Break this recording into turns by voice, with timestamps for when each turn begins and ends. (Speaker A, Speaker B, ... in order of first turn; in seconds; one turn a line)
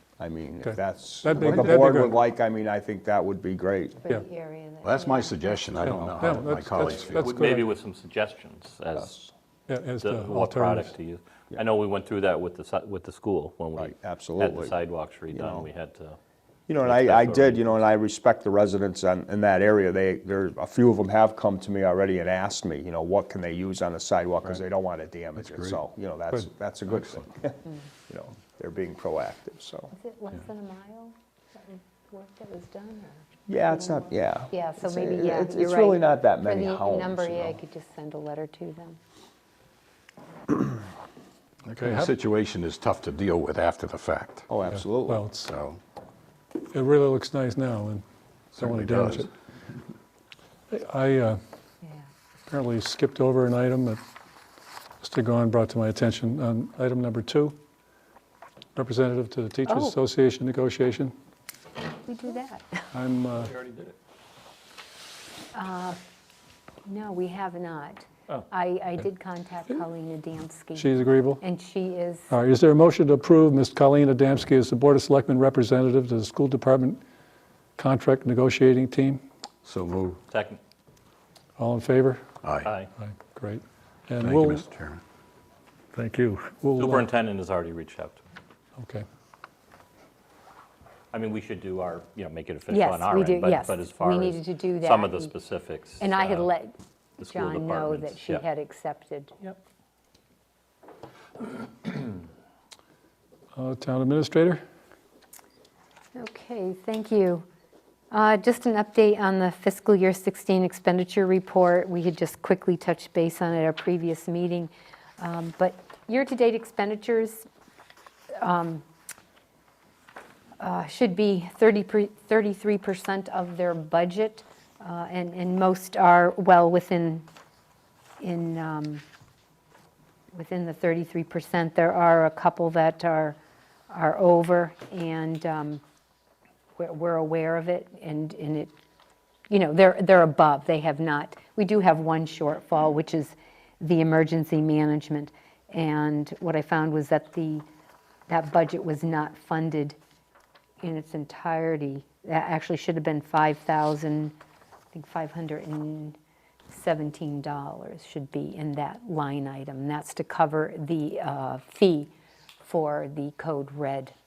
Speaker A: 0.2-4.0
Speaker B: 0.6-2.2
Speaker C: 1.4-1.7
Speaker D: 4.0-5.5
Speaker C: 4.8-7.4
Speaker B: 6.0-7.7
Speaker E: 6.9-9.2
Speaker A: 9.0-9.3
Speaker B: 9.7-10.9
Speaker E: 10.0-16.2
Speaker A: 13.8-14.8
Speaker A: 15.3-15.7
Speaker A: 16.7-29.9
Speaker E: 16.8-17.8
Speaker D: 29.9-39.0
Speaker A: 33.5-37.6
Speaker C: 41.7-44.5
Speaker B: 41.8-42.1
Speaker A: 44.5-45.3
Speaker B: 44.7-45.5
Speaker C: 45.5-45.8
Speaker B: 46.6-48.0
Speaker C: 48.5-49.3
Speaker B: 48.5-49.3
Speaker B: 50.7-51.4
Speaker B: 52.5-54.0
Speaker B: 55.0-57.6
Speaker B: 58.8-61.1
Speaker D: 59.7-60.0
Speaker D: 62.0-62.9
Speaker B: 62.9-63.6
Speaker E: 63.6-63.9
Speaker D: 65.5-66.0
Speaker D: 66.8-72.3
Speaker B: 70.8-71.4
Speaker B: 72.3-77.0
Speaker B: 77.8-79.2
Speaker C: 79.6-80.2
Speaker E: 80.3-80.6
Speaker B: 81.6-82.2
Speaker C: 82.4-82.8
Speaker E: 82.6-82.9
Speaker B: 83.0-84.6
Speaker C: 84.2-85.0
Speaker B: 85.9-87.0
Speaker E: 86.8-88.2
Speaker B: 88.8-89.0
Speaker E: 91.1-96.5
Speaker D: 92.7-95.3
Speaker D: 96.0-99.4
Speaker E: 97.2-98.5
Speaker B: 103.5-104.6
Speaker D: 106.2-107.5
Speaker D: 108.1-117.5
Speaker D: 118.4-118.8
Speaker D: 120.6-127.3
Speaker D: 128.2-129.0
Speaker D: 130.3-133.4
Speaker D: 133.9-135.8
Speaker D: 136.8-138.8
Speaker D: 139.5-147.7
Speaker D: 148.3-150.0
Speaker D: 150.8-154.3
Speaker D: 154.9-156.2
Speaker D: 156.7-164.1